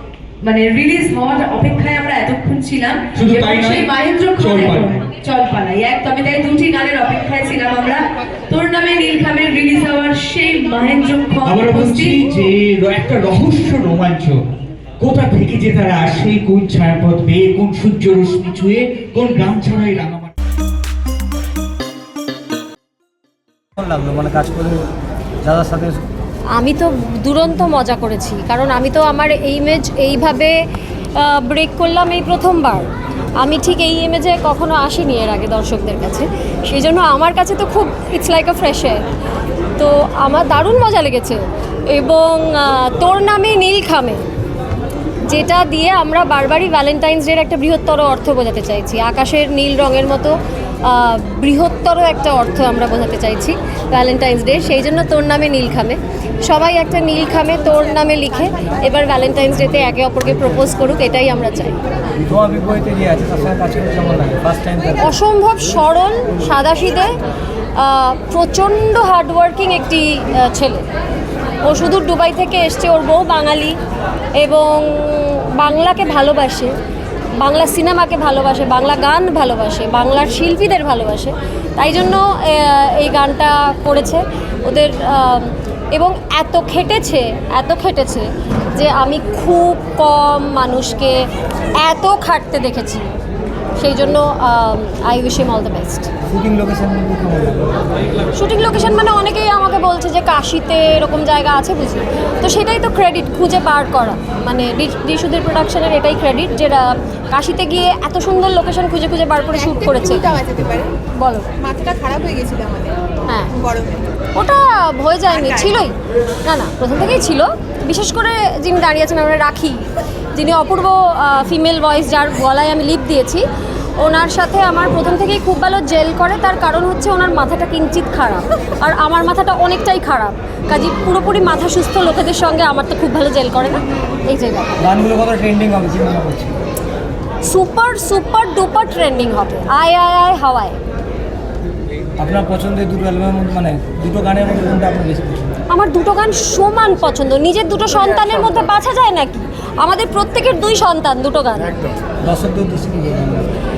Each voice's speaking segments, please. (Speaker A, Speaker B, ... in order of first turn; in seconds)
Speaker A: 0.4-12.4
Speaker B: 3.1-5.1, 11.4-14.4, 15.0-20.3
Speaker C: 23.8-24.9, 25.4-26.0, 62.2-65.0, 96.3-97.8, 134.8-136.5, 142.2-145.6, 152.2-153.5
Speaker D: 26.6-30.6, 31.1-32.9, 33.4-39.0, 39.8-44.2, 45.3-61.8, 65.0-67.1, 67.8-70.8, 71.6-73.8, 74.4-76.7, 77.4-91.2, 91.8-93.1, 93.8-96.1, 98.4-110.4, 111.2-111.4, 114.3-115.9, 116.4-123.4, 124.0-134.8, 137.4-140.8, 145.7-151.7
Speaker E: 109.7-113.0, 113.5-114.0, 115.3-115.8